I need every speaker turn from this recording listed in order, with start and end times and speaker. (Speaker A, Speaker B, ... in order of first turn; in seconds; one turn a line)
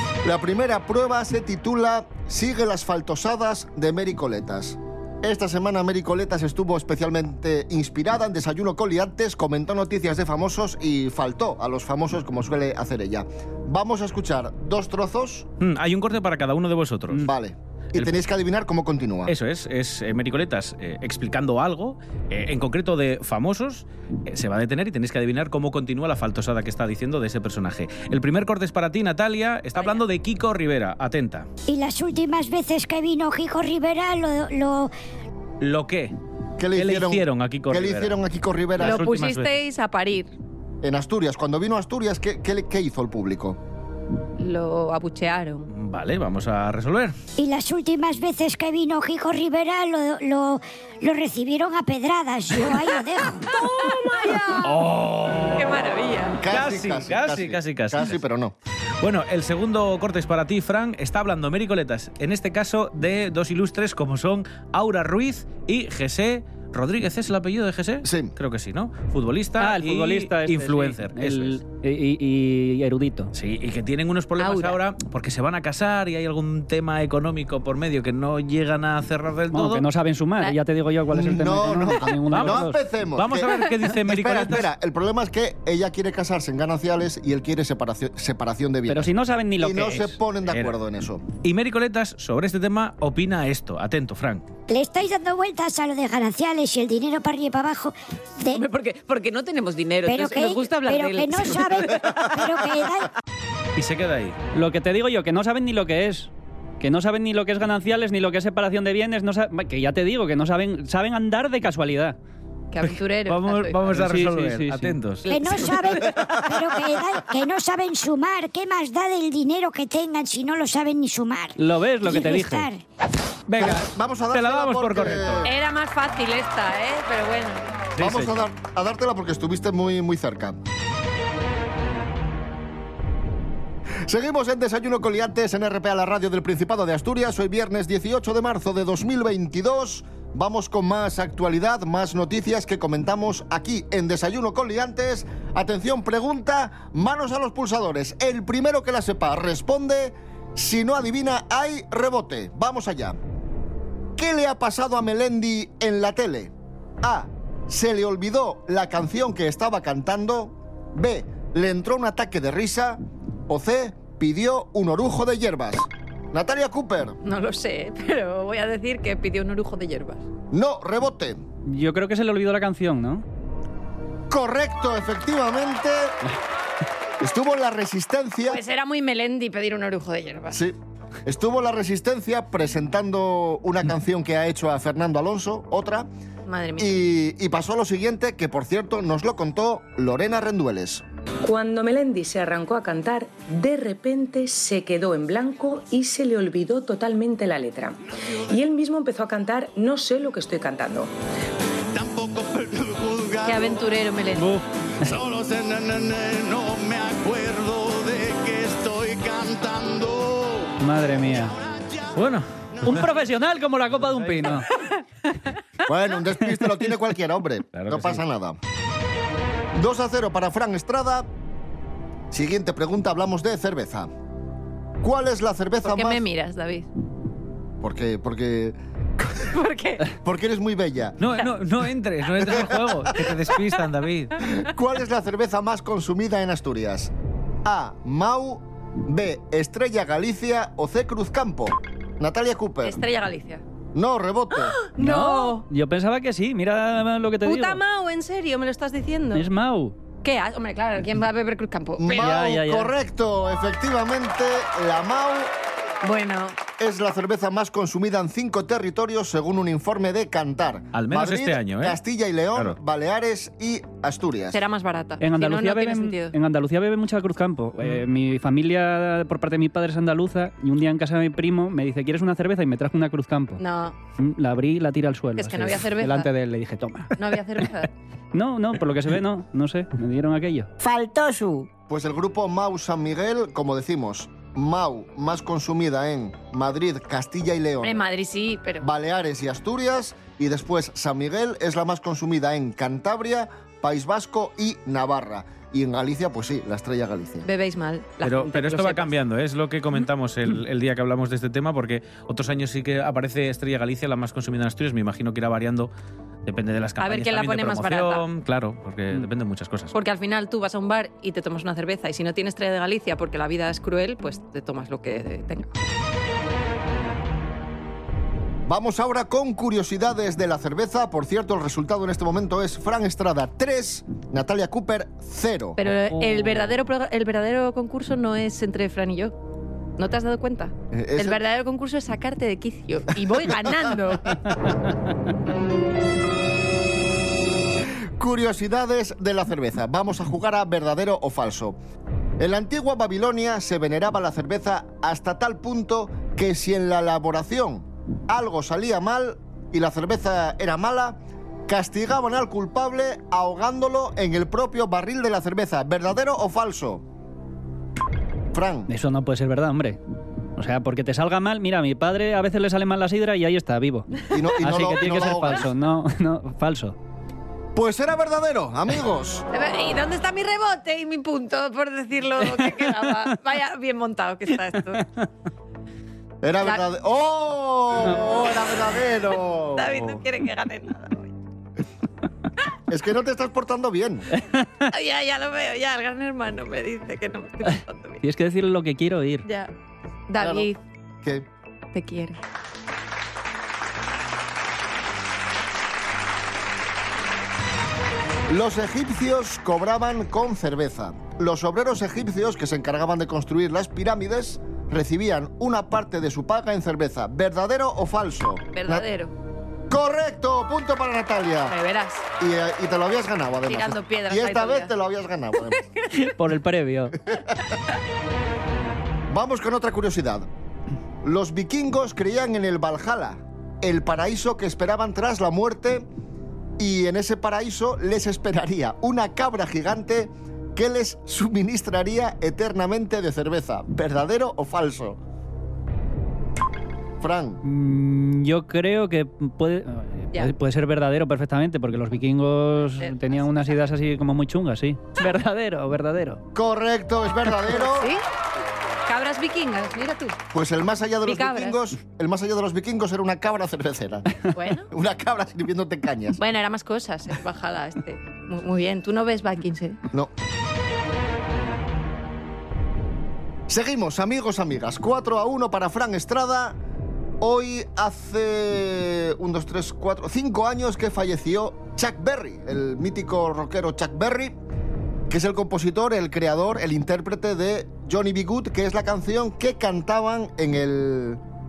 Speaker A: 0.2-15.5
Speaker B: 15.6-17.3
Speaker A: 17.2-19.3
Speaker B: 19.3-31.5
Speaker C: 29.8-30.0
Speaker D: 31.7-34.9
Speaker B: 35.6-36.1
Speaker A: 36.6-39.1
Speaker B: 36.8-38.2
Speaker B: 38.8-39.5
Speaker C: 38.8-40.3
Speaker A: 40.8-43.6
Speaker C: 44.4-45.7
Speaker B: 45.7-47.1
Speaker D: 47.4-53.5
Speaker C: 53.5-54.7
Speaker B: 54.6-55.8
Speaker C: 55.6-56.4
Speaker A: 56.4-58.5
Speaker B: 56.5-58.2
Speaker B: 59.0-71.6
Speaker A: 68.0-68.3
Speaker E: 69.6-73.3
Speaker B: 73.3-79.9
Speaker C: 74.4-74.8
Speaker E: 79.5-82.8
Speaker A: 81.1-91.2
Speaker B: 82.3-84.7
Speaker E: 88.9-90.2
Speaker B: 90.5-90.8
Speaker B: 91.4-94.4
Speaker D: 94.7-98.6
Speaker F: 98.5-102.3
Speaker D: 100.0-103.1
Speaker B: 103.8-104.4
Speaker E: 104.5-112.2
Speaker C: 112.7-113.8
Speaker B: 112.8-115.3
Speaker E: 113.9-115.0
Speaker C: 115.3-115.9
Speaker D: 115.3-122.8
Speaker E: 121.6-122.7
Speaker B: 123.5-125.5
Speaker A: 123.6-125.5
Speaker C: 125.4-127.8
Speaker B: 127.9-128.5
Speaker A: 128.0-130.6
Speaker A: 134.1-153.2
Speaker A: 154.2-167.2
Speaker C: 167.2-170.2
Speaker A: 170.5-171.4
Speaker E: 171.7-173.2
Speaker A: 174.3-176.2
Speaker A: 177.2-178.6
Speaker C: 178.5-180.6
Speaker A: 180.5-186.1
Speaker C: 186.5-187.0
Speaker A: 186.8-191.0
Speaker G: 191.4-201.1
Speaker H: 201.9-203.7
Speaker C: 203.4-204.5
Speaker E: 204.4-205.1
Speaker H: 205.1-210.7
Speaker E: 210.8-211.6
Speaker H: 211.5-212.0
Speaker B: 212.1-213.1
Speaker E: 212.8-214.7
Speaker A: 215.8-218.6
Speaker B: 217.7-218.2
Speaker A: 219.7-221.3
Speaker A: 222.3-224.1
Speaker A: 225.0-226.2
Speaker C: 225.8-226.9
Speaker A: 227.8-229.6
Speaker C: 229.5-230.1
Speaker A: 230.2-231.2
Speaker B: 231.2-234.3
Speaker A: 232.4-233.3
Speaker A: 234.4-237.1
Speaker A: 237.7-243.0
Speaker C: 242.8-243.6
Speaker A: 243.9-244.8
Speaker C: 244.6-245.6
Speaker E: 245.0-247.8
Speaker C: 247.4-249.5
Speaker E: 249.3-249.9
Speaker C: 250.2-252.3
Speaker A: 252.0-255.5
Speaker E: 252.1-252.9
Speaker C: 256.0-256.6
Speaker A: 256.8-264.6
Speaker B: 260.9-262.0
Speaker C: 264.5-266.3
Speaker E: 265.2-273.6
Speaker C: 273.6-274.0
Speaker E: 274.2-277.3
Speaker C: 275.4-276.3
Speaker C: 277.2-277.9
Speaker E: 278.3-280.7
Speaker F: 280.8-281.5
Speaker D: 281.2-281.6
Speaker A: 281.9-288.0
Speaker C: 287.8-288.9
Speaker A: 288.8-297.5
Speaker C: 297.4-299.1
Speaker B: 298.2-305.9
Speaker B: 306.4-309.9
Speaker C: 307.0-308.3
Speaker C: 309.9-315.9
Speaker A: 318.7-325.8
Speaker C: 325.8-329.4
Speaker E: 326.1-326.7
Speaker C: 330.0-334.7
Speaker A: 330.9-331.4
Speaker A: 333.5-333.8
Speaker A: 338.2-341.8
Speaker A: 342.4-357.0
Speaker A: 358.5-358.9
Speaker E: 358.9-360.0
Speaker E: 360.6-367.0
Speaker A: 364.3-365.7
Speaker A: 367.8-369.5
Speaker C: 369.5-375.1
Speaker A: 376.4-380.2
Speaker C: 379.8-381.3
Speaker A: 382.9-384.3
Speaker C: 384.9-388.2
Speaker E: 388.2-389.4
Speaker C: 389.4-389.7
Speaker C: 390.3-390.8
Speaker A: 390.4-390.7
Speaker C: 391.9-392.4
Speaker A: 398.5-409.1
Speaker C: 408.7-409.3
Speaker A: 409.9-411.8
Speaker C: 411.7-412.2
Speaker A: 412.4-415.8
Speaker C: 413.7-414.9
Speaker E: 416.1-417.2
Speaker A: 419.3-420.5
Speaker A: 421.2-426.1
Speaker A: 426.8-435.2
Speaker A: 437.2-437.6
Speaker E: 437.6-446.4
Speaker C: 443.0-443.5
Speaker A: 446.5-448.1
Speaker C: 447.7-448.2
Speaker C: 449.1-450.4
Speaker A: 450.5-456.4
Speaker C: 451.3-451.8
Speaker C: 454.5-454.9
Speaker C: 456.4-460.0
Speaker A: 463.7-466.8
Speaker A: 467.4-474.6
Speaker A: 475.3-481.4